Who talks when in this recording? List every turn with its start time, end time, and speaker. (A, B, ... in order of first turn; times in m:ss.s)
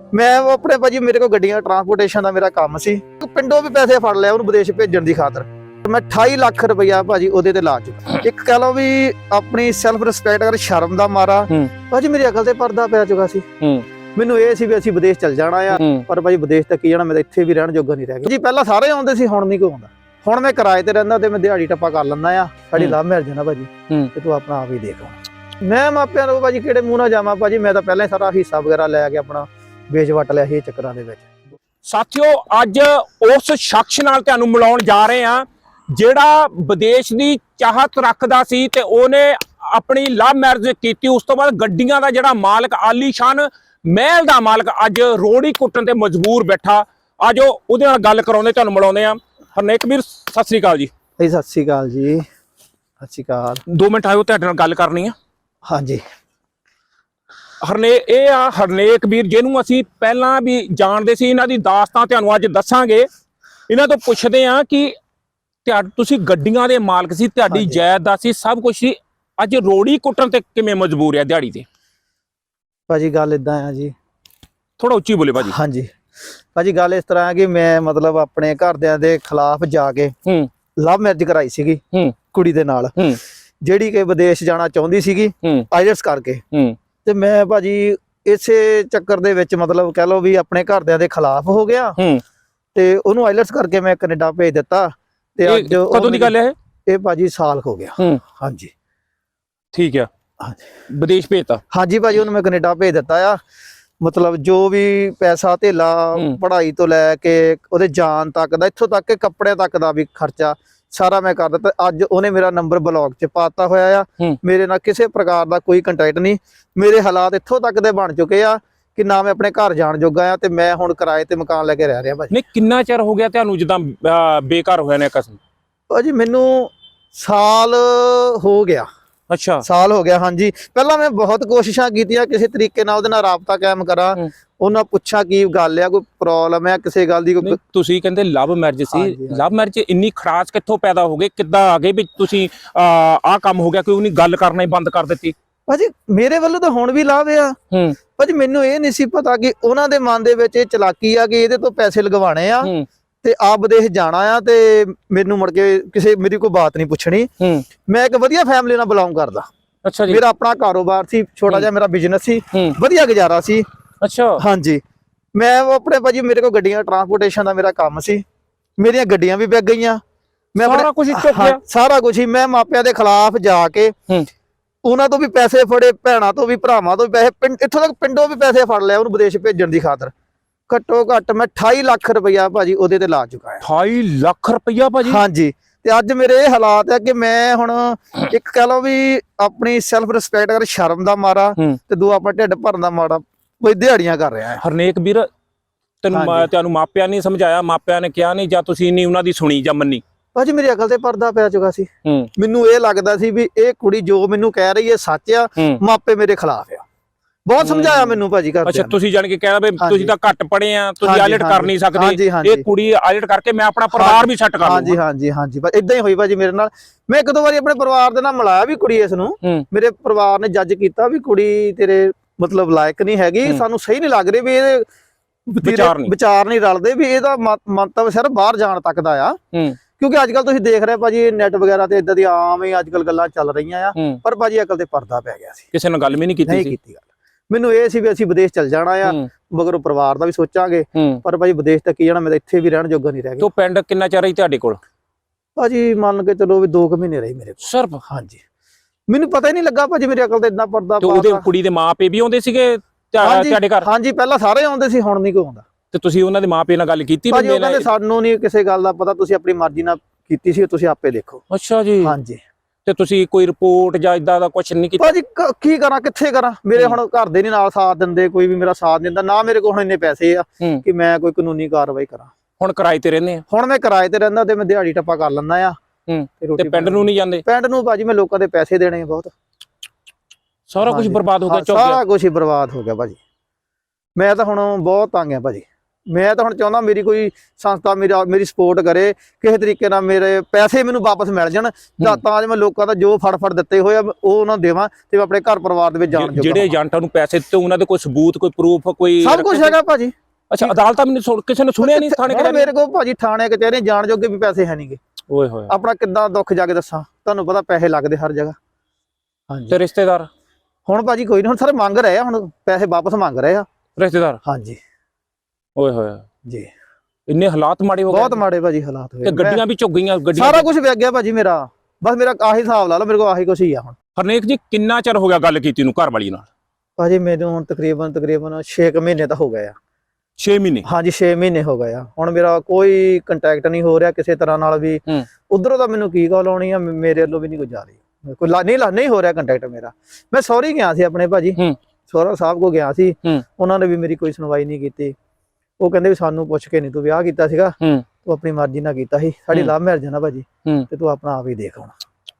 0:00.1-0:13.4 A
0:13.6-0:13.9 B
0:14.2-0:31.3 A
0:15.7-0:16.0 B
0:31.8-0:50.9 B
0:51.2-0:52.2 A
0:53.0-0:53.6 A
0:53.7-0:55.1 B
0:55.6-0:56.0 A
0:57.6-1:03.1 B
1:03.7-1:04.9 B
1:05.6-1:11.6 B
1:07.5-1:07.8 A
1:12.9-1:13.9 A
1:14.8-1:15.6 B
1:15.5-1:15.9 A
1:16.5-1:20.1 A
1:20.8-1:21.8 A
1:22.3-1:23.0 A
1:23.6-1:26.4 A
1:26.5-1:26.8 B
1:27.0-1:32.0 A
1:32.0-1:32.2 B
1:32.7-1:36.3 A
1:35.4-1:36.5 B
1:36.8-1:38.7 A
1:39.7-1:40.1 B
1:40.9-1:41.6 B
1:41.7-1:43.4 A
1:44.0-2:02.3 A
2:02.3-2:05.4 B
2:05.9-2:08.9 A
2:09.3-2:09.6 B
2:09.6-2:17.6 A
2:17.4-2:25.3 B
2:18.9-2:19.4 A
2:25.7-2:27.6 A
2:27.7-2:28.0 B
2:28.2-2:32.7 A
2:33.2-2:37.3 A
2:37.4-2:37.6 B
2:37.9-2:39.5 A
2:39.8-2:40.2 B
2:40.1-2:43.6 A
2:44.0-2:44.4 B
2:44.4-2:44.8 A
2:45.3-2:48.2 A
2:48.8-2:50.0 A
2:50.5-2:53.9 A
2:50.6-2:51.6 B
2:54.8-3:00.1 A
3:00.7-3:03.6 A
3:03.6-3:05.2 B
3:05.0-3:14.6 A
3:14.6-3:15.3 B
3:16.0-3:20.0 B
3:16.1-3:16.5 A
3:20.3-3:26.8 A
3:22.0-3:22.3 B
3:27.4-3:29.0 A
3:27.6-3:35.0 B
3:29.8-3:30.2 A
3:31.0-3:32.6 A
3:33.9-3:44.9 A
3:45.5-3:49.4 A
3:45.6-3:46.1 B
3:49.5-3:49.8 B
3:50.0-3:55.7 A
3:53.9-3:54.2 B
3:55.7-3:56.7 B
3:56.5-4:03.5 A
4:00.9-4:01.2 B
4:03.4-4:04.8 B
4:05.6-4:08.4 A
4:07.6-4:08.0 B
4:09.1-4:11.4 A
4:11.0-4:13.9 B
4:13.2-4:15.6 A
4:15.9-4:17.9 B
4:17.3-4:21.4 A
4:21.5-4:22.1 B
4:22.0-4:22.4 A
4:22.8-4:25.2 B
4:25.0-4:32.3 A
4:32.6-4:33.4 B
4:33.5-4:35.8 A
4:36.1-4:37.4 B
4:36.4-4:39.3 A
4:40.7-4:42.0 B
4:40.8-4:43.2 A
4:44.2-4:56.8 A
4:56.1-4:59.8 B
4:59.2-5:00.7 A
5:00.5-5:02.7 B
5:01.8-5:05.0 A
5:05.3-5:05.7 B
5:05.7-5:08.6 A
5:09.5-5:09.8 A
5:09.7-5:10.3 B
5:10.8-5:13.6 A
5:14.0-5:14.4 B
5:14.4-5:14.8 A
5:15.8-5:16.2 B
5:17.3-5:18.4 B
5:18.1-5:19.6 A
5:19.2-5:20.7 B
5:20.3-5:23.9 A
5:24.2-5:26.5 B
5:27.0-5:29.7 A
5:30.4-5:30.8 B
5:30.8-5:45.1 A
5:45.8-5:51.9 A